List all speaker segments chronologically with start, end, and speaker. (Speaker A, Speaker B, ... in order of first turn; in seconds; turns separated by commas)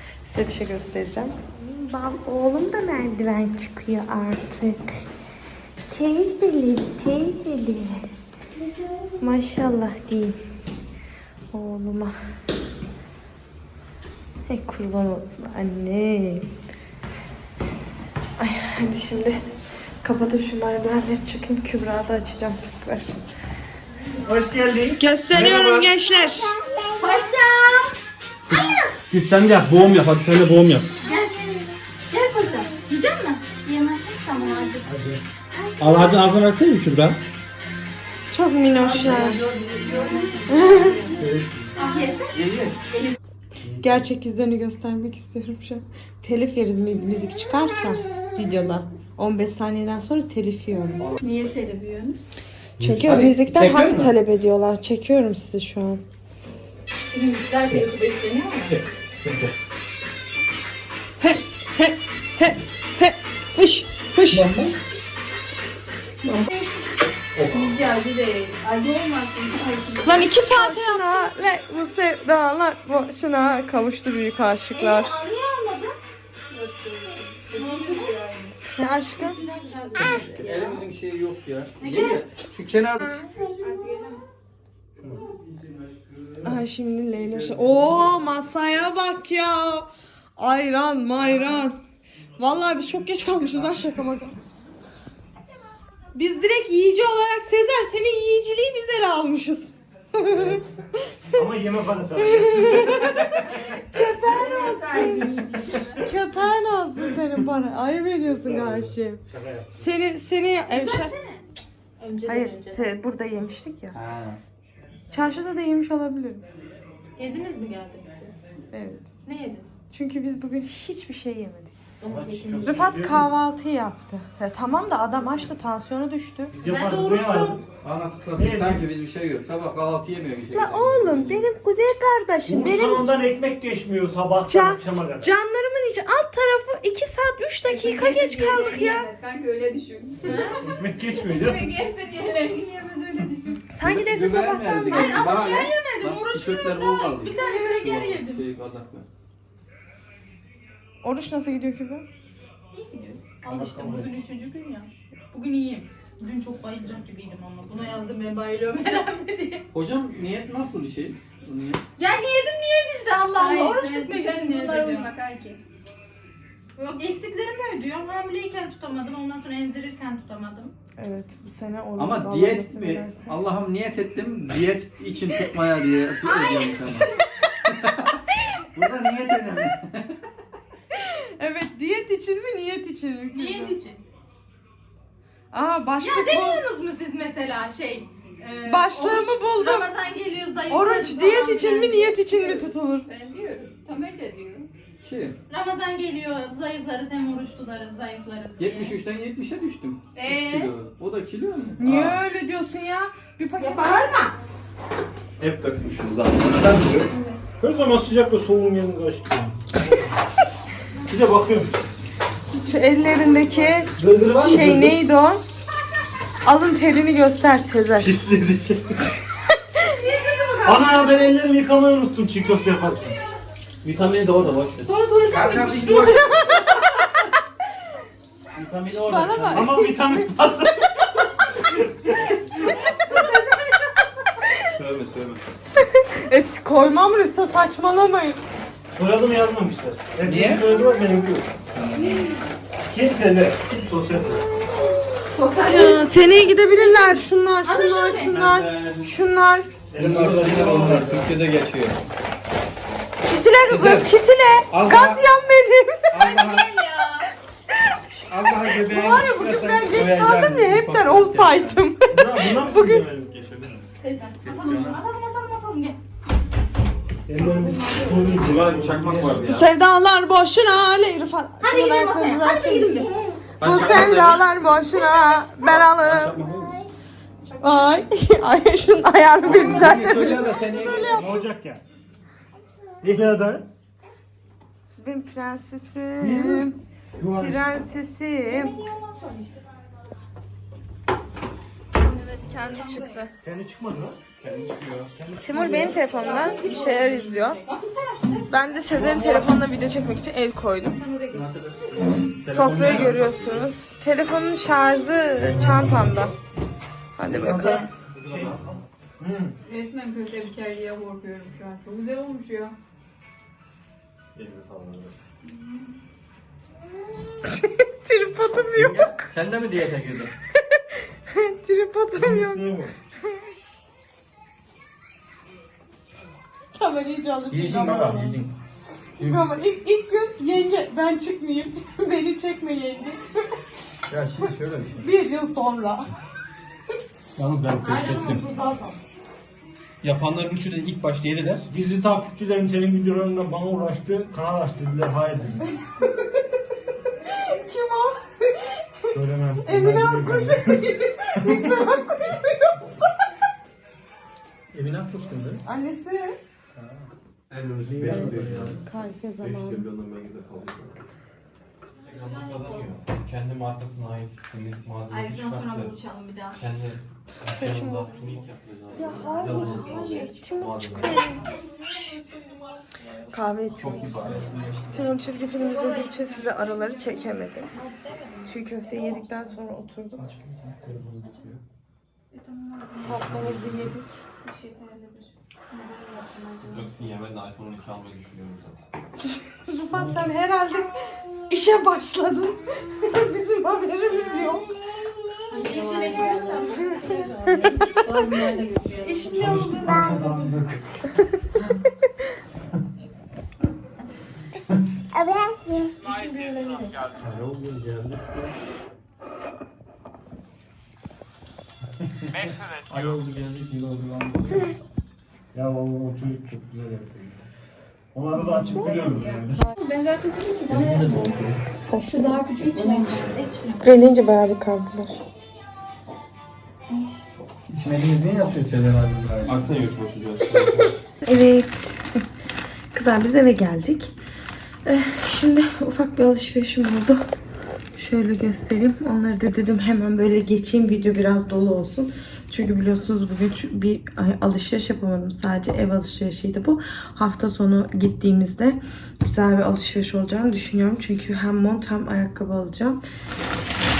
Speaker A: 0.2-5.0, Speaker A: 5.9-8.1, Speaker A: 9.2-10.4, Speaker A: 11.5-12.2, Speaker A: 14.5-16.5, Speaker A: 18.4-19.4, Speaker A: 20.0-23.2, Speaker B: 24.2-25.9, Speaker A: 25.0-26.5, Speaker C: 26.9-27.9, Speaker C: 28.6-28.9, Speaker B: 29.2-30.9, Speaker D: 29.9-30.6, Speaker C: 31.0-34.9, Speaker B: 34.8-35.2, Speaker B: 35.8-36.5, Speaker A: 38.3-39.4, Speaker E: 38.8-41.2, Speaker A: 40.5-40.9, Speaker B: 41.2-41.8, Speaker C: 41.8-42.3, Speaker F: 42.3-42.8, Speaker B: 43.6-44.1, Speaker A: 43.8-51.0, Speaker E: 51.2-52.2, Speaker A: 52.8-56.0, Speaker F: 52.8-54.1, Speaker C: 57.1-58.8, Speaker A: 61.2-64.5, Speaker E: 67.4-70.4, Speaker A: 70.0-75.1, Speaker C: 70.5-71.1, Speaker C: 74.7-75.9, Speaker E: 76.5-78.5, Speaker C: 77.5-78.2, Speaker A: 78.7-79.4, Speaker C: 79.2-80.8, Speaker F: 80.2-83.1, Speaker C: 81.8-82.2, Speaker E: 83.6-84.2, Speaker A: 86.4-91.8, Speaker A: 92.4-94.3, Speaker A: 96.1-101.4, Speaker B: 100.3-100.6, Speaker B: 101.3-103.6, Speaker A: 102.2-105.4, Speaker E: 104.2-106.1, Speaker A: 106.0-109.2, Speaker B: 108.2-109.9, Speaker A: 109.7-111.1, Speaker C: 110.7-111.4, Speaker C: 112.0-112.9, Speaker A: 112.2-114.0, Speaker F: 113.9-114.4, Speaker A: 115.1-116.4, Speaker C: 117.2-118.4, Speaker A: 118.7-119.1, Speaker C: 119.2-119.7, Speaker A: 119.9-121.8, Speaker C: 122.0-123.0, Speaker B: 122.0-123.3, Speaker A: 122.6-126.5, Speaker B: 126.5-127.6, Speaker C: 126.6-127.6, Speaker F: 127.8-131.5, Speaker B: 128.3-128.8, Speaker A: 130.5-133.2, Speaker B: 132.4-135.3, Speaker A: 134.5-139.1, Speaker E: 137.7-143.6, Speaker C: 140.2-140.6, Speaker B: 140.5-141.8, Speaker A: 143.7-145.4, Speaker F: 143.8-149.1, Speaker C: 144.7-148.4, Speaker A: 151.0-152.0, Speaker C: 152.7-159.6, Speaker F: 153.4-154.2, Speaker F: 159.7-161.8, Speaker C: 162.0-165.1, Speaker E: 163.3-165.6, Speaker C: 166.8-170.7, Speaker A: 171.0-173.3, Speaker F: 172.0-177.1, Speaker A: 176.2-176.8, Speaker F: 177.6-178.2, Speaker F: 178.7-180.2, Speaker A: 181.0-183.8, Speaker C: 183.3-184.0, Speaker A: 185.5-186.6, Speaker C: 186.0-191.3, Speaker A: 188.6-189.9, Speaker A: 190.7-193.1, Speaker E: 191.2-194.7, Speaker F: 195.0-195.4, Speaker C: 195.5-198.9, Speaker F: 198.6-202.2, Speaker E: 200.1-200.7, Speaker A: 201.8-204.3, Speaker C: 203.6-204.3, Speaker D: 205.4-207.1, Speaker B: 206.5-207.1, Speaker B: 207.6-209.6, Speaker B: 211.1-211.8, Speaker A: 212.5-215.4, Speaker B: 213.9-215.0, Speaker A: 216.4-218.2, Speaker B: 218.0-218.8, Speaker C: 219.9-220.9, Speaker B: 220.6-223.2, Speaker B: 223.8-224.7, Speaker D: 223.8-224.8, Speaker F: 224.6-226.4, Speaker A: 224.9-226.8, Speaker C: 225.3-226.2, Speaker B: 228.5-230.9, Speaker A: 228.9-230.3, Speaker B: 231.5-232.8, Speaker D: 234.7-235.5, Speaker A: 235.8-238.4, Speaker B: 238.9-241.5, Speaker F: 240.2-240.6, Speaker C: 242.0-242.3, Speaker B: 242.8-244.4, Speaker C: 245.3-246.1, Speaker A: 245.6-249.7, Speaker C: 247.0-248.4, Speaker B: 248.3-249.1, Speaker B: 249.9-251.3, Speaker F: 249.9-252.0, Speaker A: 253.2-256.3, Speaker F: 253.7-254.1, Speaker F: 254.7-255.2, Speaker F: 256.1-256.6, Speaker E: 256.2-257.2, Speaker A: 257.9-263.1, Speaker F: 258.2-261.8, Speaker B: 262.1-263.5, Speaker D: 262.5-263.8, Speaker C: 264.0-266.0, Speaker F: 264.4-265.0, Speaker B: 267.3-269.6, Speaker C: 267.4-268.4, Speaker D: 268.4-269.7, Speaker A: 269.5-273.1, Speaker C: 271.6-273.4, Speaker A: 273.6-276.4, Speaker D: 273.6-274.6, Speaker F: 275.9-276.7, Speaker A: 277.6-281.4, Speaker C: 277.6-278.0, Speaker F: 279.4-281.3, Speaker B: 280.9-281.8, Speaker B: 283.0-283.6, Speaker A: 284.9-286.8, Speaker B: 286.2-286.7, Speaker B: 287.2-287.7, Speaker A: 287.4-288.8, Speaker C: 288.5-289.7, Speaker E: 292.0-293.2, Speaker A: 292.2-293.3, Speaker B: 293.4-294.2, Speaker D: 294.4-295.2, Speaker B: 295.1-296.0, Speaker A: 295.4-297.6, Speaker C: 295.5-299.6, Speaker A: 298.5-301.0, Speaker C: 300.9-301.6, Speaker F: 301.3-302.2, Speaker A: 302.4-306.3, Speaker B: 302.5-303.2, Speaker D: 302.5-303.6, Speaker A: 307.2-307.9, Speaker B: 307.3-308.7, Speaker F: 308.2-308.6, Speaker B: 309.2-309.5, Speaker E: 309.6-312.8, Speaker D: 314.3-315.1, Speaker E: 315.4-315.9, Speaker A: 317.4-319.3, Speaker F: 318.8-320.3, Speaker A: 320.7-322.7, Speaker B: 322.1-322.9, Speaker A: 326.8-328.4, Speaker F: 327.5-328.5, Speaker A: 329.2-333.4, Speaker F: 329.2-329.4, Speaker F: 334.1-335.1, Speaker A: 335.0-336.1, Speaker B: 337.4-338.4, Speaker C: 337.8-339.0, Speaker D: 340.0-341.7, Speaker B: 341.7-345.6, Speaker A: 347.3-349.1, Speaker B: 349.1-350.8, Speaker A: 349.6-353.1, Speaker B: 351.4-351.7, Speaker F: 354.7-355.6, Speaker A: 355.6-356.4, Speaker B: 356.8-357.0, Speaker D: 357.5-358.8, Speaker B: 357.8-358.8, Speaker A: 358.1-359.9, Speaker D: 359.4-361.0, Speaker D: 362.0-366.0, Speaker C: 362.4-362.9, Speaker E: 365.1-366.6, Speaker D: 366.5-371.2, Speaker A: 367.5-368.1, Speaker A: 368.9-372.2, Speaker A: 373.3-374.1, Speaker D: 373.7-374.8, Speaker F: 374.1-375.1, Speaker A: 374.9-377.7, Speaker E: 375.5-377.4, Speaker C: 377.8-378.5, Speaker A: 378.4-380.4, Speaker B: 380.2-381.6, Speaker E: 382.3-383.7, Speaker A: 383.0-384.1, Speaker E: 384.4-387.0, Speaker D: 386.6-388.9, Speaker A: 389.6-390.9, Speaker B: 389.9-390.2, Speaker A: 391.5-394.8, Speaker E: 394.2-394.8, Speaker E: 395.5-397.1, Speaker C: 395.5-398.0, Speaker E: 397.7-400.3, Speaker A: 399.0-400.2, Speaker B: 399.4-400.9, Speaker A: 405.6-407.0, Speaker B: 407.2-408.3, Speaker F: 412.9-414.6, Speaker B: 415.5-417.4, Speaker B: 418.1-419.7, Speaker E: 418.4-421.4, Speaker F: 420.7-421.6, Speaker A: 421.8-422.4, Speaker E: 422.1-424.0, Speaker C: 422.5-423.4, Speaker A: 423.6-425.2, Speaker E: 426.9-427.3, Speaker F: 427.7-429.6, Speaker D: 429.4-431.0, Speaker A: 431.2-432.2, Speaker A: 432.9-434.1, Speaker A: 434.9-437.2, Speaker A: 437.9-453.0